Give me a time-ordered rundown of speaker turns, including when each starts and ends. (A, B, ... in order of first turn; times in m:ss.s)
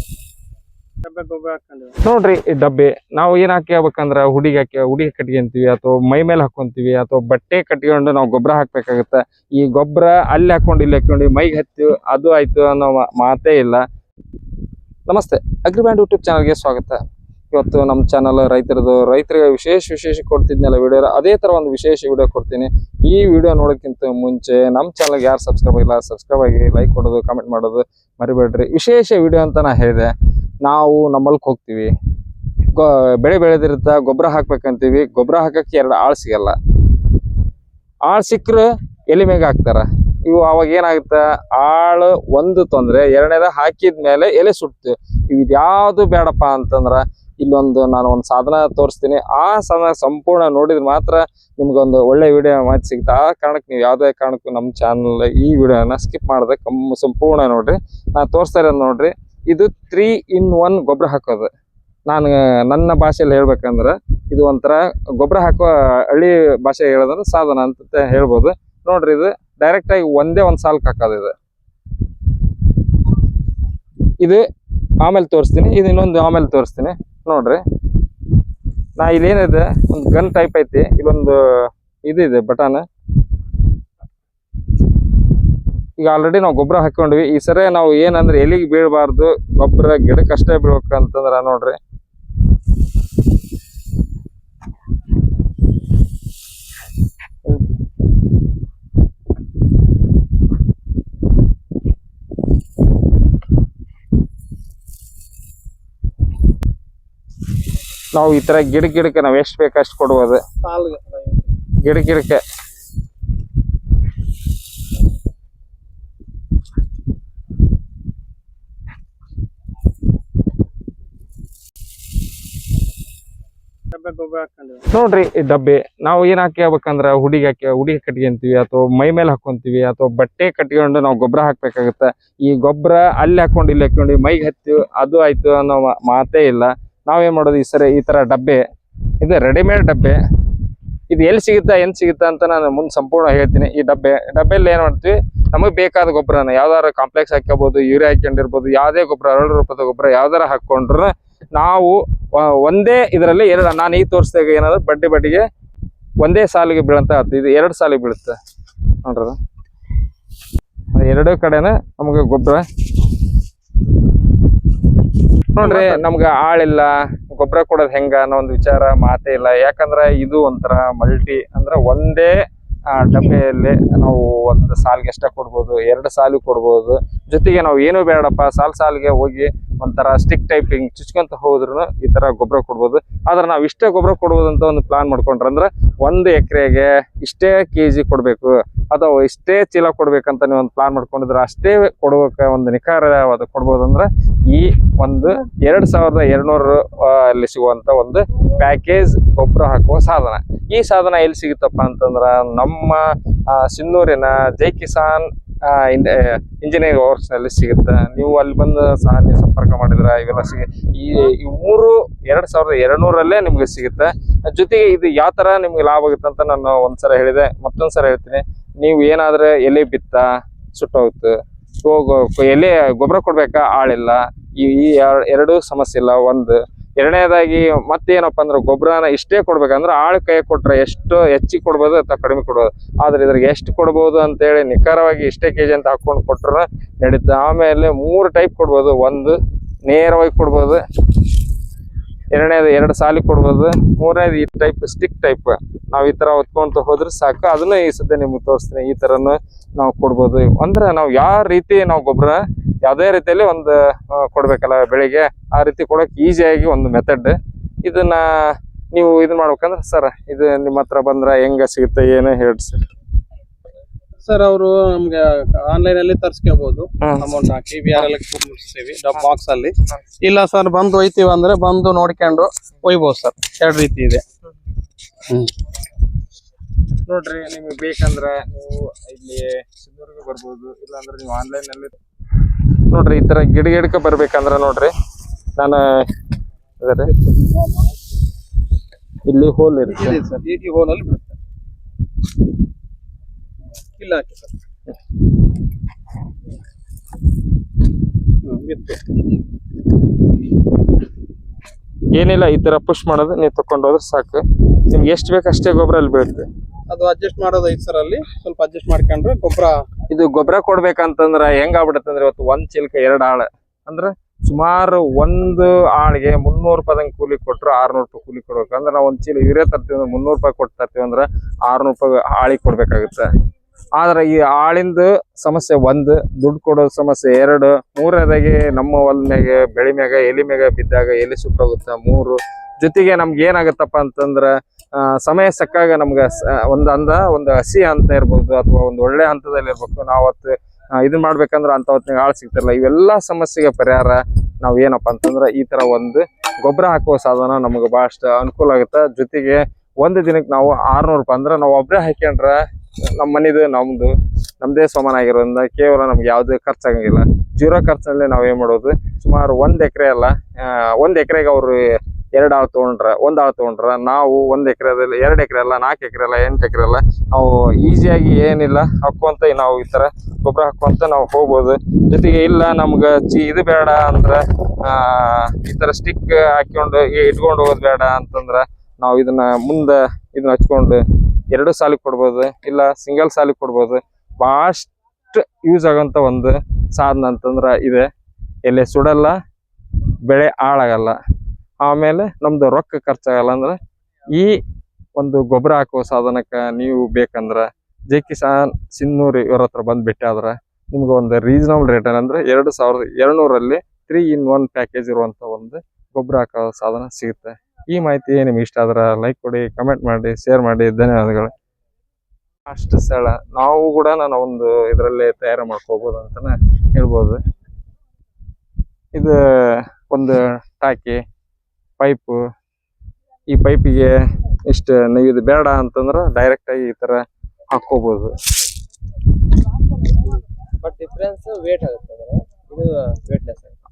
0:01.0-0:02.0 A
0:02.0-0:13.8 B
0:15.1-0:17.0 B
0:17.5-0:30.1 B
0:30.6-0:31.9 B
0:32.7-0:36.6 B
0:38.0-1:01.5 B
1:02.1-1:11.3 B
1:15.0-1:17.6 B
1:19.0-1:22.8 B
1:26.0-1:31.8 B
1:48.1-1:50.4 B
1:50.6-1:51.4 A
1:51.8-1:52.4 B
2:03.9-2:04.8 A
2:04.9-2:18.6 B
2:19.2-2:20.2 B
2:21.1-2:35.4 B
2:36.2-2:38.4 B
2:39.0-2:39.4 B
2:40.9-2:42.6 B
2:45.5-2:52.3 B
2:45.6-2:46.0 A
2:52.9-4:00.8 B
4:02.3-4:22.8 B
4:24.2-4:34.2 A
4:27.0-4:27.3 B
4:35.3-4:35.5 A
4:37.1-4:42.0 B
4:42.8-4:44.9 B
4:45.6-4:45.8 B
4:46.8-4:47.1 B
4:49.3-4:50.2 B
4:49.9-4:51.3 A
4:54.0-4:54.5 A
4:58.4-4:59.0 A
5:02.1-5:06.5 B
5:06.9-5:09.8 A
5:10.1-5:23.3 B
5:24.0-5:52.6 B
5:53.1-6:01.8 B
6:02.4-6:28.1 B
6:28.7-6:29.4 B
6:30.2-6:31.2 B
6:31.8-6:33.8 B
6:34.3-6:34.6 B
6:35.2-6:51.5 B
6:52.7-6:57.4 B
6:59.1-7:01.2 B
7:02.0-7:02.4 B
7:03.5-7:08.4 B
7:10.8-7:13.7 C